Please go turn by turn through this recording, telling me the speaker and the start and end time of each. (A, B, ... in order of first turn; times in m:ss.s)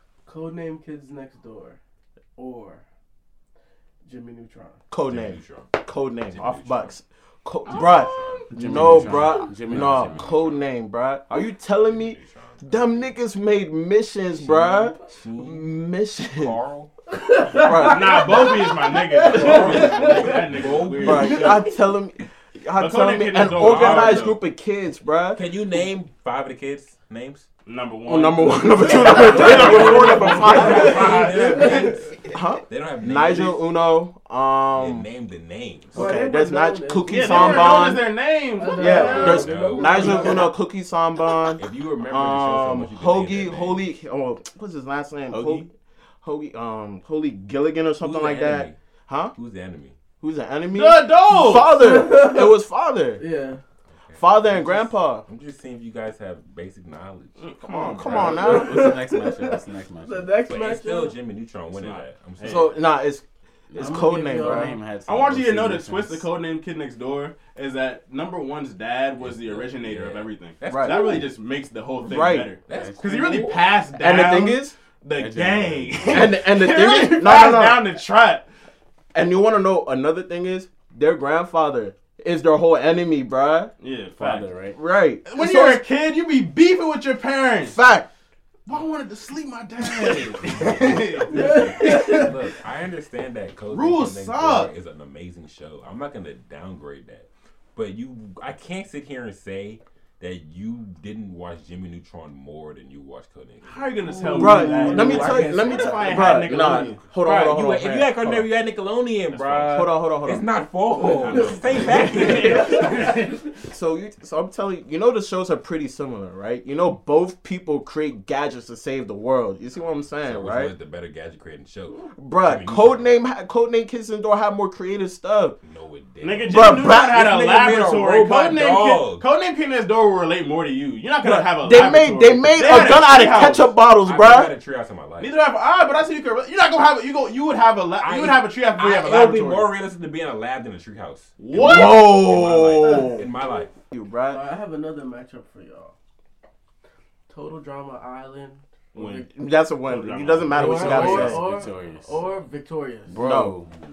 0:00.3-0:01.8 A
0:02.4-0:02.8 A
0:04.0-0:04.8 A
0:04.9-0:16.5 B
0:05.0-0:05.8 C
0:06.3-0:07.0 C
0:07.7-0:10.7 C
0:08.5-0:10.4 D
0:11.8-0:13.1 C
0:14.3-0:16.9 C
0:17.2-0:20.4 A
0:17.5-0:18.6 B
0:17.8-0:21.6 E
0:19.3-0:21.7 C
0:19.4-0:20.0 B
0:21.0-0:25.4 B
0:22.8-0:24.4 E
0:23.4-0:24.4 C
0:25.4-0:27.5 C
0:27.7-0:31.9 E
0:28.1-0:35.1 B
0:28.9-0:33.6 C
0:30.2-0:32.0 A
0:34.8-0:36.1 C
0:35.9-0:38.1 B
0:35.9-0:38.0 A
0:37.0-0:40.4 E
0:38.6-0:40.5 A
0:38.7-0:45.7 B
0:39.0-0:40.5 C
0:41.6-0:43.9 C
0:45.3-0:45.7 D
0:46.2-0:49.3 B
0:48.0-0:48.8 C
0:49.4-0:50.0 C
0:50.2-0:53.2 B
0:50.7-0:51.8 E
0:51.8-0:52.6 A
0:53.2-0:53.6 A
0:54.0-0:58.4 C
0:54.2-0:55.2 B
0:57.4-0:58.5 E
0:57.7-0:58.9 B
0:58.2-1:00.3 D
0:58.5-1:01.2 A
1:00.5-1:02.8 C
1:01.7-1:02.8 E
1:02.4-1:04.8 B
1:03.7-1:06.3 D
1:03.8-1:04.8 A
1:05.0-1:18.5 E
1:09.2-1:11.2 C
1:10.7-1:11.2 B
1:12.0-1:12.5 B
1:12.7-1:13.8 C
1:12.7-1:13.0 D
1:14.0-1:14.8 B
1:15.2-1:16.3 D
1:16.1-1:18.0 B
1:19.1-1:23.7 B
1:23.8-1:24.6 E
1:24.2-1:24.8 D
1:24.7-1:25.8 B
1:25.2-1:27.8 E
1:27.6-1:28.1 B
1:28.7-1:32.2 E
1:30.4-1:46.4 C
1:31.4-1:32.3 A
1:33.7-1:34.7 E
1:43.6-1:47.1 E
1:44.2-1:45.6 A
1:44.4-1:48.5 B
1:47.1-1:53.2 C
1:49.4-1:50.5 B
1:51.0-1:53.3 E
1:51.4-1:52.7 B
1:53.7-2:00.7 B
2:00.2-2:03.2 C
2:02.1-2:05.6 B
2:05.6-2:09.2 C
2:06.2-2:13.7 E
2:06.5-2:07.2 B
2:11.2-2:14.5 B
2:14.0-2:15.4 C
2:15.2-2:19.7 E
2:18.0-2:23.8 C
2:21.4-2:22.1 E
2:21.6-2:23.3 B
2:23.9-2:24.4 B
2:24.3-2:26.0 A
2:27.3-2:29.3 A
2:29.0-2:29.3 E
2:29.3-2:31.5 B
2:29.8-2:31.4 E
2:30.5-2:33.2 A
2:30.6-2:32.2 D
2:33.1-2:33.7 D
2:33.2-2:33.6 B